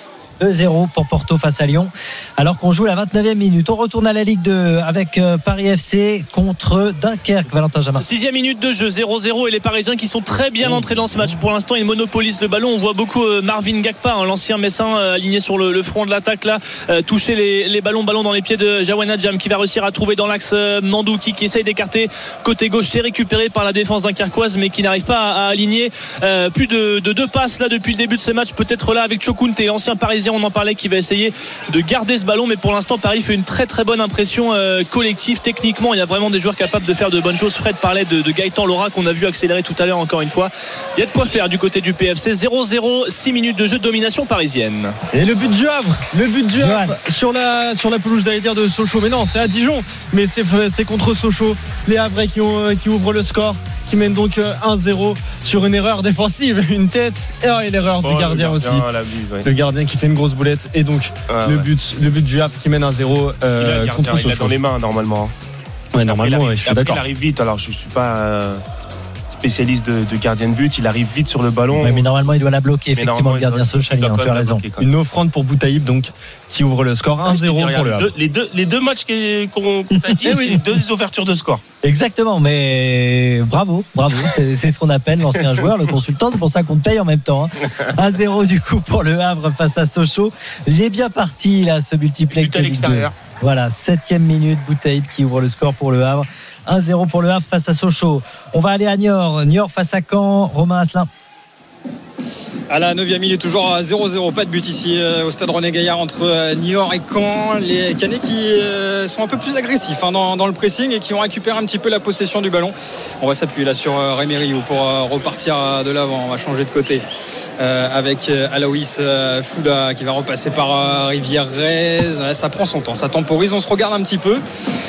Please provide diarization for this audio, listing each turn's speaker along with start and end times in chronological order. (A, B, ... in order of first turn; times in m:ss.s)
0:00.4-0:08.0 A
0:08.0-0:45.0 B
0:45.1-0:58.9 C
0:46.6-0:47.0 A
0:58.0-0:59.5 D
0:59.4-1:04.6 C
1:01.3-1:01.7 D
1:03.5-1:05.3 D
1:05.9-1:07.0 C
1:06.0-1:08.6 D
1:09.3-1:12.1 D
1:11.8-1:14.6 A
1:13.0-1:14.9 D
1:14.8-1:18.1 C
1:17.2-1:21.6 D
1:19.9-1:20.4 A
1:20.3-1:20.6 C
1:21.8-1:41.1 A
1:32.3-1:33.2 D
1:42.7-1:57.0 E
1:57.6-2:04.4 E